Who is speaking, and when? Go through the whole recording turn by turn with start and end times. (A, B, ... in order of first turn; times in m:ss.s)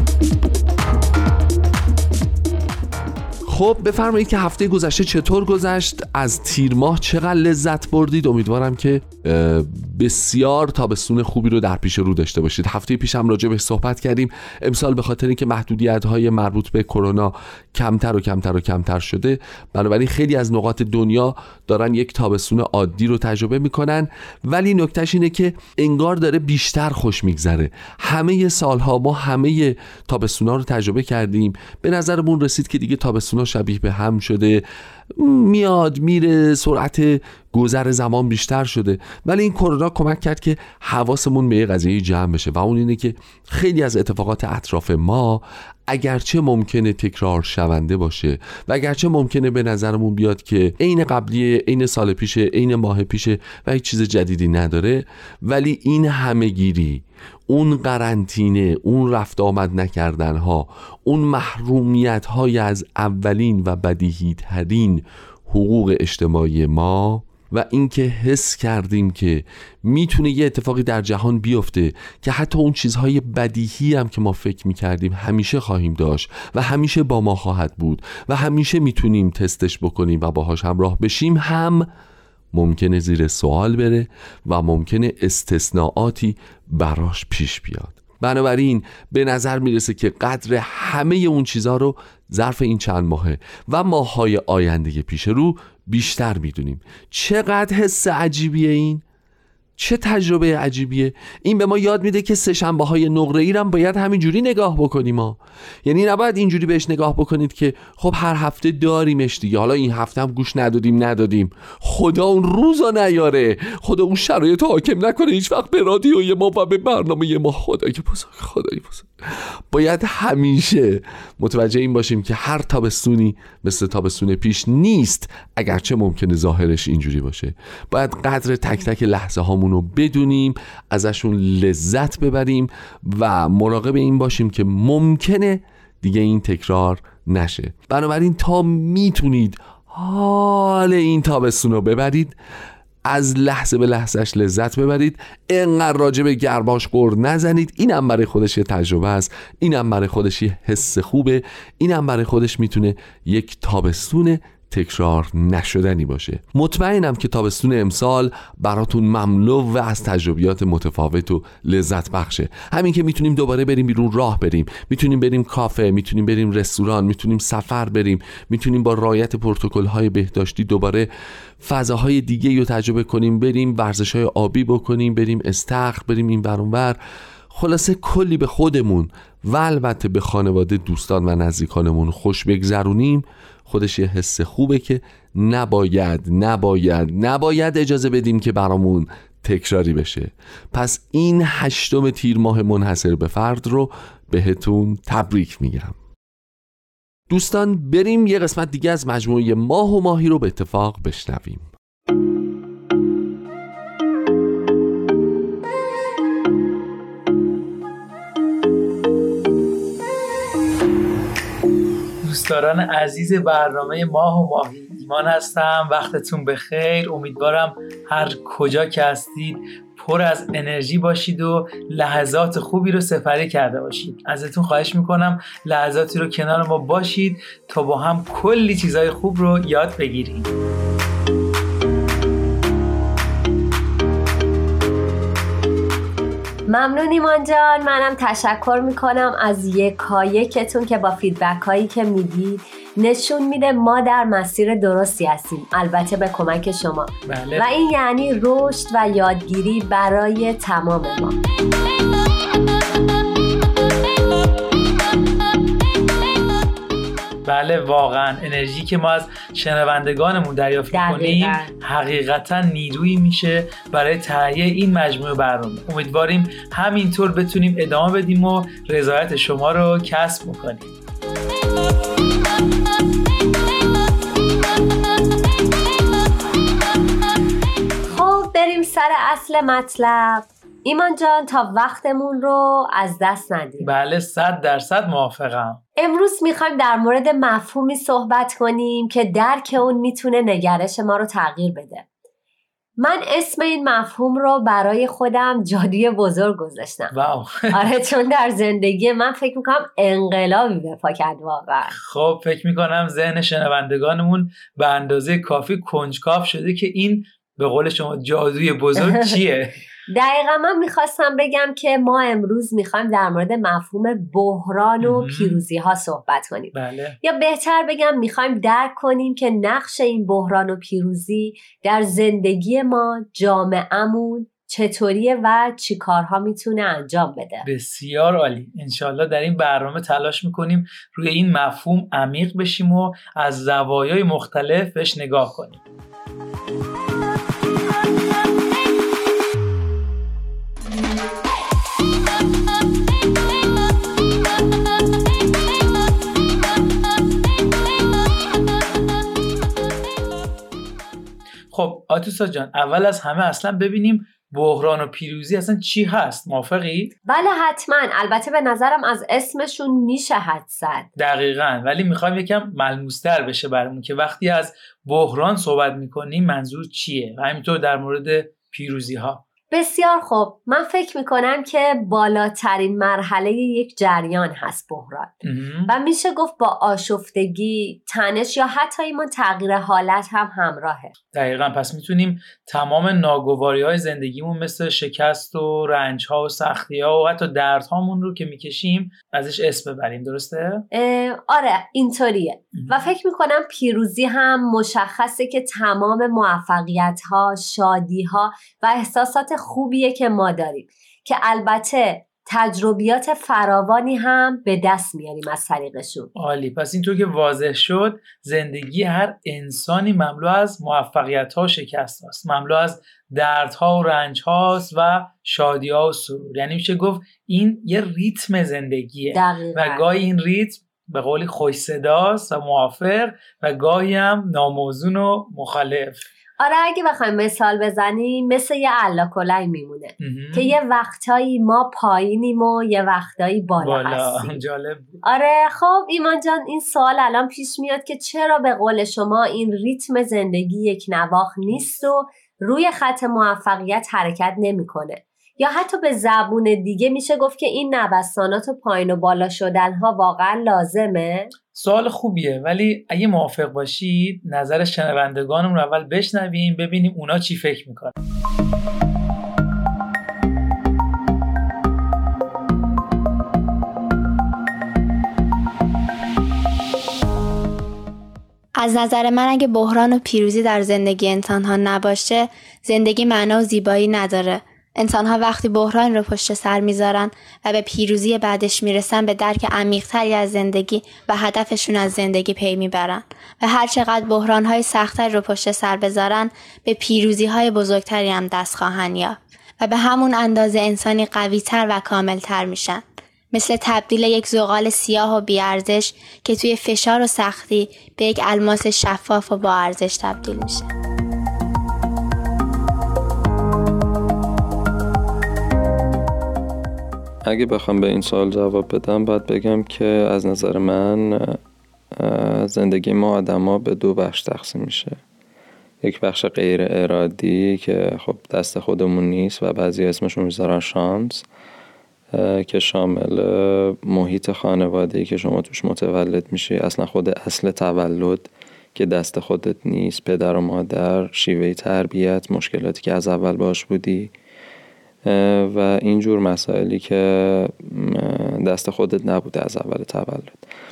0:03.4-0:34.6 A
0:35.1-1:21.9 A
1:22.5-1:39.0 A
1:39.8-2:22.4 A
2:23.1-2:51.1 A
2:51.6-2:57.0 A
2:57.5-3:16.0 A
3:17.3-3:21.7 A
3:32.2-3:50.5 B
3:56.7-4:11.4 C
4:07.3-4:07.7 B
4:17.4-4:30.9 B
4:20.9-4:21.7 C
4:38.1-4:43.9 C
4:43.8-4:45.8 B
4:46.0-4:52.0 C
4:53.0-4:57.1 C
4:57.1-4:57.9 B
4:57.7-5:01.9 C
5:01.9-5:09.8 B
5:09.0-5:09.4 C
5:10.1-5:27.6 C
5:15.0-5:15.6 B
5:16.7-5:17.2 B
5:27.6-5:35.8 B
5:51.7-5:57.1 B
5:57.3-6:01.1 C
6:01.2-6:09.4 B
6:09.7-6:15.4 C
6:15.4-6:15.9 B
6:15.9-6:21.1 C
6:21.3-6:30.8 B
6:30.9-6:46.3 C
6:32.7-6:33.1 B
6:46.3-7:06.2 B
6:59.3-7:00.0 C
7:06.6-7:14.6 C
7:10.2-7:10.7 B
7:13.8-7:15.2 B
7:15.2-7:31.5 C
7:31.7-7:38.1 B
7:48.8-8:20.9 D
8:27.5-8:31.6 E
8:32.2-8:35.2 E
8:36.0-8:41.4 E
8:42.3-8:54.3 E
8:55.3-9:00.6 E